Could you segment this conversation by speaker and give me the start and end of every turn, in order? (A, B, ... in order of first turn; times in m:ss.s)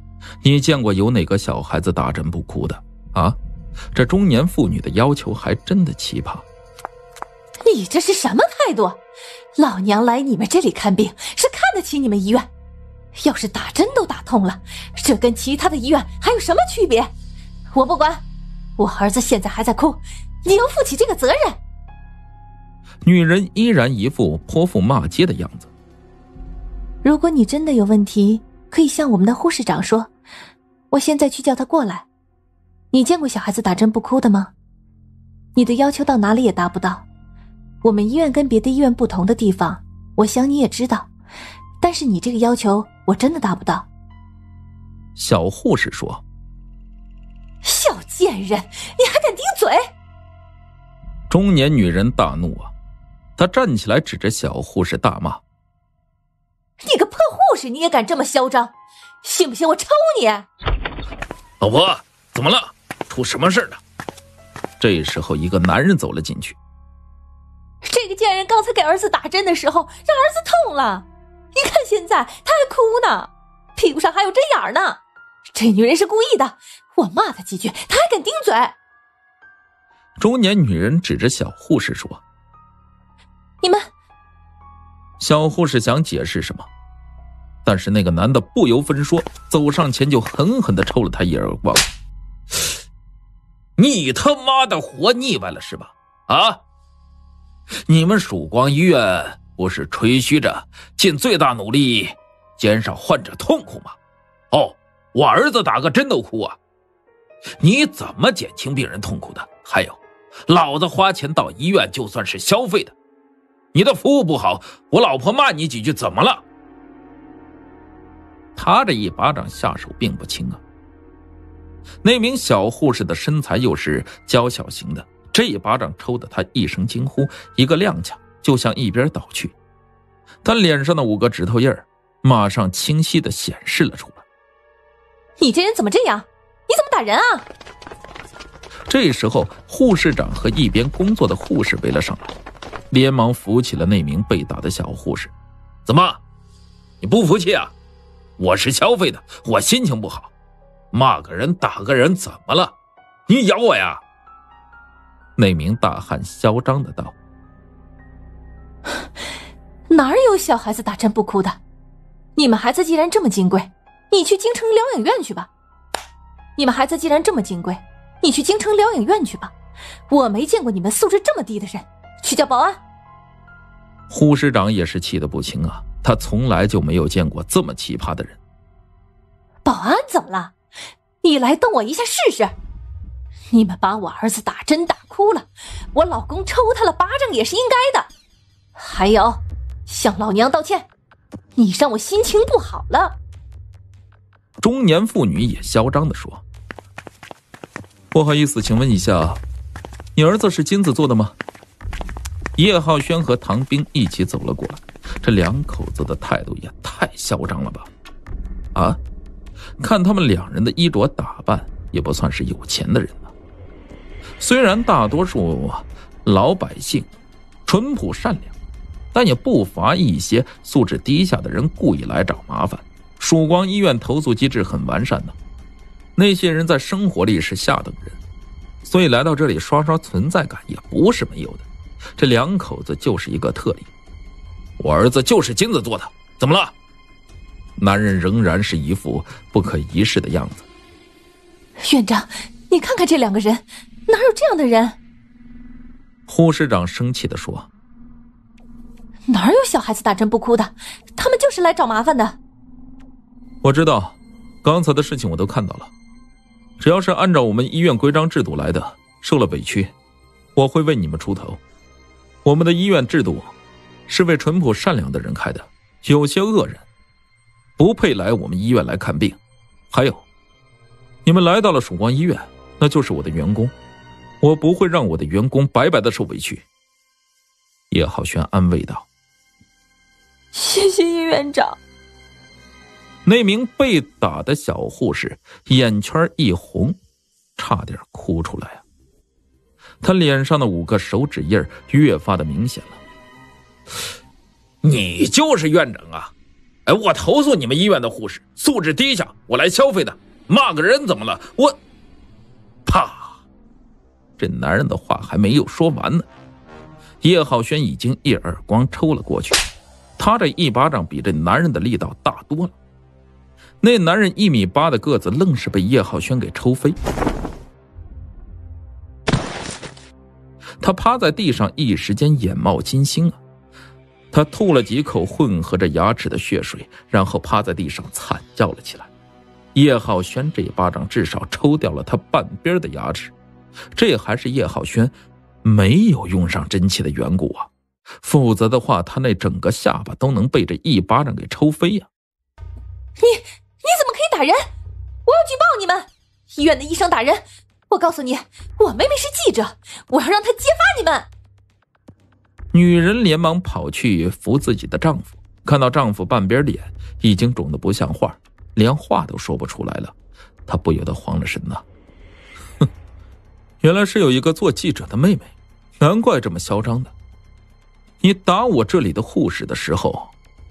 0:00.4-0:03.4 A
0:03.9-0:06.4 A
0:07.6-0:09.0 B
0:09.6-0:12.5 B
0:13.1-0:17.1 B
0:17.7-0:18.2 B
0:18.8-0:21.6 B
0:23.0-0:25.7 A
0:27.0-0:30.1 B
0:30.9-0:32.1 B
0:32.9-0:34.5 B
0:35.5-0:37.0 B
0:37.8-0:41.1 B
0:41.8-0:43.9 B
0:45.2-0:46.2 A
0:47.6-0:49.9 B
0:51.3-0:52.7 A
0:53.4-0:55.4 A
0:56.8-1:00.5 B
1:01.6-1:03.8 A
1:04.8-1:06.6 A
1:07.8-1:15.0 B
1:15.5-1:18.8 B
1:20.2-1:22.2 A
1:23.6-1:23.9 B
1:25.2-1:26.7 A
1:27.6-1:31.9 A
1:33.8-1:36.6 A
1:37.9-1:44.0 A
1:44.5-1:46.6 A
1:47.6-1:52.9 A
1:53.7-1:56.4 A
1:58.6-2:00.6 A
2:02.0-2:09.5 A
2:10.4-2:14.2 A
2:15.4-2:17.4 B
2:18.9-2:22.3 A
2:22.9-2:25.3 A
2:25.8-2:26.2 A
2:27.0-2:27.7 A
2:28.4-2:30.3 A
2:30.9-2:32.7 A
2:33.3-2:34.0 A
2:35.4-2:37.1 A
2:39.9-2:41.6 B
2:42.4-2:45.5 B
2:46.6-2:49.5 B
2:50.1-2:52.8 B
2:54.1-2:58.4 A
2:59.6-3:00.5 B
3:01.2-3:02.5 B
3:03.5-3:08.1 B
3:08.8-3:10.9 B
3:11.6-3:13.2 B
3:14.6-3:16.4 A
3:18.1-3:19.4 A
3:20.2-3:21.4 A
3:22.6-3:27.9 A
3:28.7-3:29.0 A
3:29.8-3:33.3 A
3:34.4-3:37.1 A
3:37.6-3:38.5 A
3:39.1-3:45.3 A
3:46.2-3:48.2 A
3:48.8-3:51.6 A
3:52.2-3:53.9 A
3:54.8-3:56.7 A
3:57.8-4:00.6 A
4:01.8-4:05.0 B
4:06.3-4:07.7 A
4:09.3-4:12.4 B
4:13.6-4:15.9 A
4:16.8-4:19.9 A
4:20.6-4:21.6 A
4:22.4-4:23.5 A
4:24.1-4:26.8 A
4:27.8-4:29.4 A
4:29.9-4:30.2 A
4:31.2-4:33.7 A
4:34.4-4:36.6 A
4:37.9-4:39.1 A
4:40.5-4:41.8 B
4:43.2-4:47.0 A
4:47.6-4:48.8 A
4:50.0-4:53.0 A
4:54.8-4:56.3 A
4:56.8-5:01.8 A
5:02.8-5:03.4 A
5:04.4-5:06.3 A
5:07.2-5:09.6 A
5:10.2-5:12.7 A
5:13.8-5:17.0 A
5:20.8-5:23.4 A
5:24.3-5:29.1 A
5:29.7-5:33.3 A
5:34.0-5:35.1 A
5:35.6-5:37.7 A
5:38.2-5:42.1 A
5:43.2-5:44.6 B
5:45.2-5:51.3 B
5:52.7-6:00.1 A
6:00.7-6:01.8 A
6:03.8-6:07.1 A
6:08.2-6:10.3 A